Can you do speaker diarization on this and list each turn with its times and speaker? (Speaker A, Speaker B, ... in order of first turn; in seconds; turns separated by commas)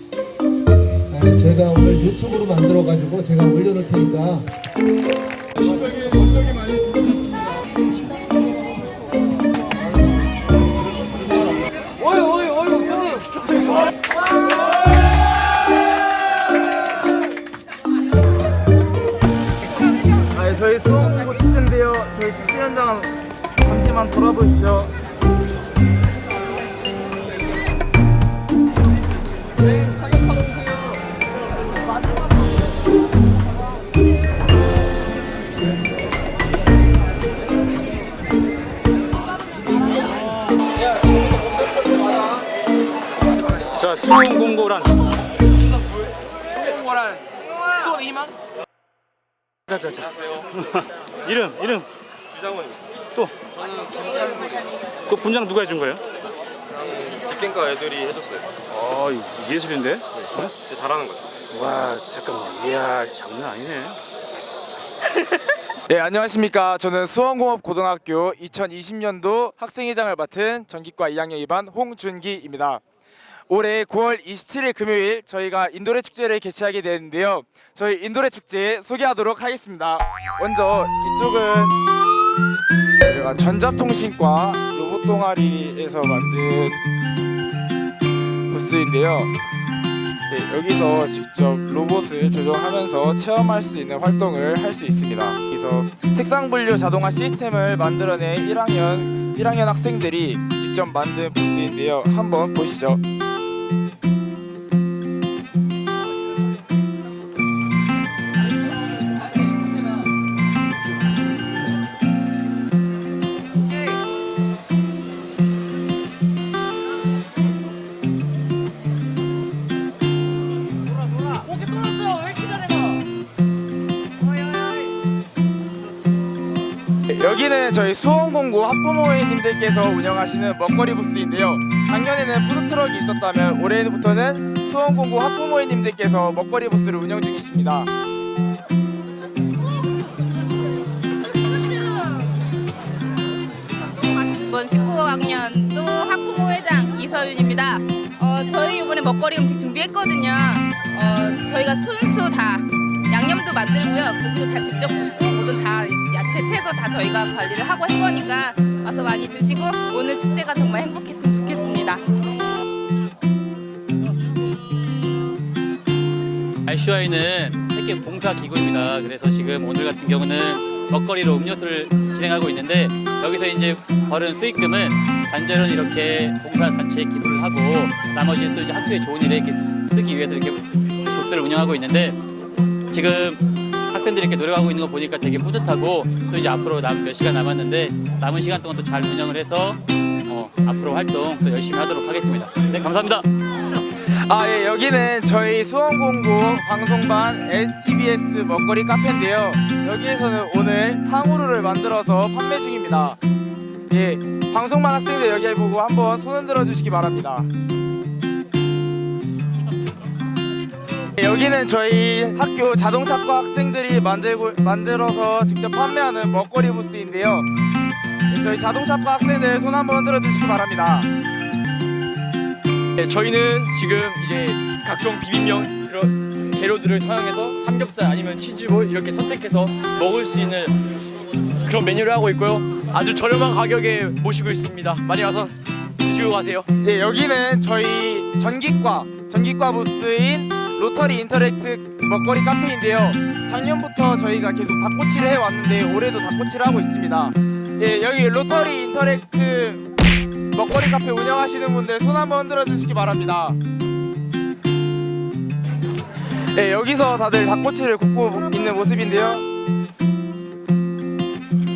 Speaker A: 1.1-4.5, Speaker B: 20.3-24.9, Speaker C: 43.8-44.9, Speaker C: 49.7-51.9, Speaker D: 52.4-52.8, Speaker C: 55.1-56.0, Speaker D: 56.8-58.6, Speaker C: 58.7-60.5, Speaker D: 60.6-61.4, Speaker C: 61.5-64.0, Speaker B: 65.9-72.8, Speaker B: 73.5-81.8, Speaker B: 83.0-86.8, Speaker B: 88.5-89.3, Speaker B: 90.3-103.0, Speaker B: 127.1-137.9, Speaker E: 144.4-162.1, Speaker F: 166.7-182.2, Speaker F: 182.9-193.3, Speaker B: 193.9-203.2, Speaker B: 203.9-207.5, Speaker B: 211.2-217.5, Speaker B: 218.3-221.1, Speaker G: 223.0-230.8, Speaker G: 231.6-236.7, Speaker B: 236.8-249.9, Speaker B: 250.5-253.6, Speaker B: 256.6-259.4